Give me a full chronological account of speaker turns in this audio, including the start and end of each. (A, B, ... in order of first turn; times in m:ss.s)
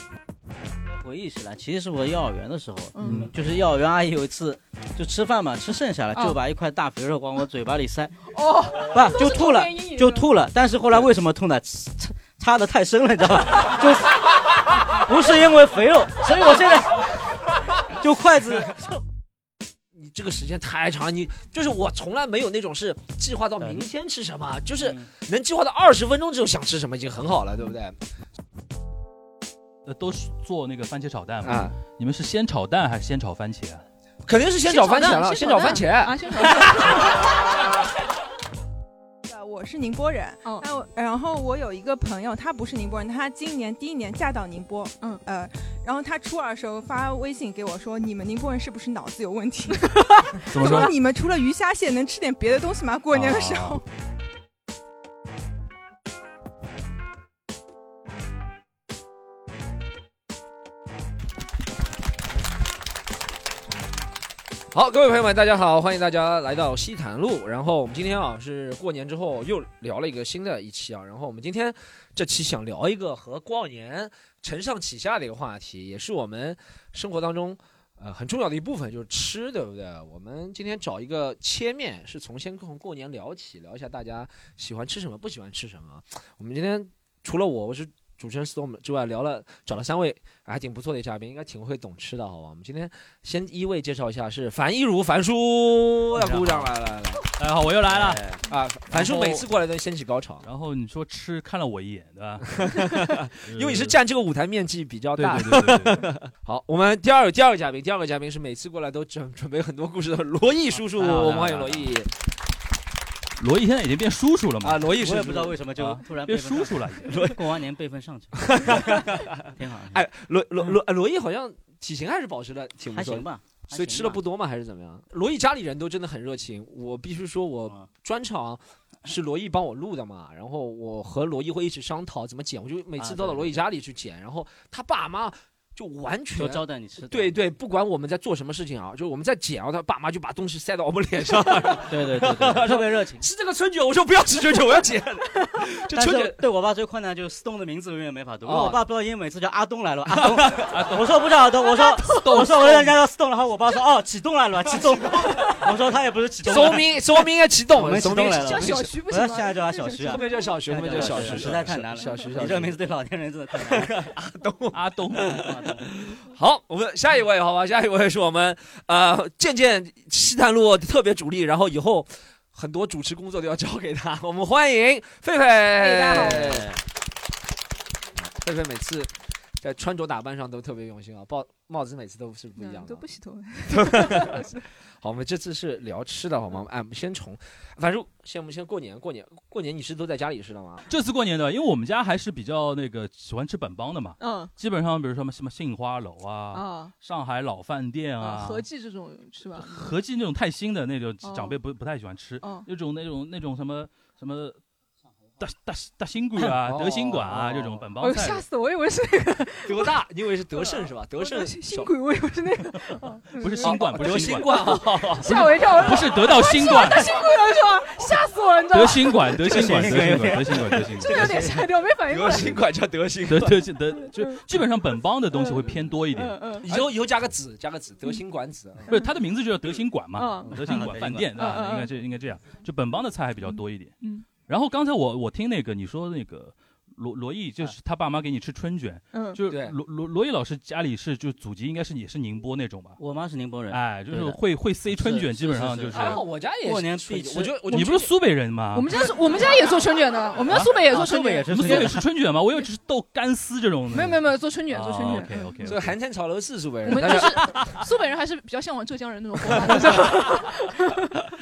0:01.0-0:08.2 A
0:02.9-0:03.3 B
0:08.3-0:10.2 B
0:08.8-0:17.2 A
0:18.0-0:18.9 A
0:19.9-0:27.9 C
0:23.6-0:23.9 A
0:29.8-0:33.8 D
0:31.4-0:31.7 C
0:34.2-0:37.0 C
0:34.6-0:37.2 B
0:39.3-0:53.8 E
0:49.8-0:50.9 B
0:50.5-0:50.9 D
0:53.1-0:53.8 D
1:04.7-1:37.2 C
1:36.1-1:36.7 D
1:37.4-1:38.2 D
1:37.9-1:38.4 A
1:38.5-1:40.4 C
1:38.9-1:39.5 D
1:40.4-1:44.0 D
1:42.5-1:52.1 C
1:45.2-1:46.1 D
1:50.7-1:51.9 A
1:53.4-1:54.9 D
1:54.6-1:55.6 C
1:54.9-2:00.0 A
1:55.8-1:57.3 D
1:57.1-1:57.4 C
1:58.4-2:26.4 C
2:02.9-2:04.2 A
2:13.0-2:13.6 A
2:16.3-2:17.4 A
2:21.8-2:23.2 A
2:25.9-2:44.0 A
2:28.4-2:28.8 C
2:30.1-2:30.7 C
2:31.6-2:32.5 B
2:32.2-2:32.8 D
2:36.4-2:38.9 C
2:36.5-2:36.8 B
2:38.4-2:40.5 B
2:40.0-2:42.8 C
2:43.6-2:56.7 C
2:44.7-2:45.4 D
2:45.4-2:45.8 A
2:55.7-2:56.5 B
2:56.4-2:56.7 A
2:58.2-3:03.0 C
3:02.6-3:04.6 B
3:03.7-3:04.5 C
3:05.0-3:10.8 C
3:10.9-3:18.6 D
3:14.2-3:14.5 B
3:16.5-3:16.9 B
3:18.2-3:19.9 B
3:19.6-3:24.6 D
3:21.2-3:21.6 B
3:22.4-3:22.7 B
3:25.4-3:28.4 D
3:26.4-3:27.7 C
3:28.0-3:29.9 B
3:29.6-3:31.9 C
3:30.6-3:34.0 B
3:33.4-3:37.0 D
3:33.6-3:35.3 C
3:34.6-3:39.3 B
3:38.7-3:41.3 D
3:39.4-3:41.7 A
3:41.0-3:42.6 B
3:42.1-3:43.6 C
3:43.2-3:46.8 D
3:44.0-3:44.4 B
3:45.3-3:45.6 B
3:46.1-3:46.7 B
3:46.6-3:48.9 C
3:48.9-3:53.9 D
3:50.1-3:50.5 B
3:50.4-3:51.3 A
3:51.3-3:51.9 B
3:53.4-3:54.2 B
3:54.5-4:03.0 D
3:59.1-3:59.4 B
3:59.5-3:59.8 C
4:03.0-4:07.8 A
4:03.7-4:06.2 D
4:05.9-4:08.1 C
4:07.7-4:09.1 D
4:08.7-4:11.9 B
4:10.5-4:10.7 D
4:10.5-4:12.0 A
4:11.5-4:16.0 D
4:13.9-4:15.5 B
4:15.6-4:17.6 C
4:16.8-4:21.2 B
4:19.5-4:20.2 C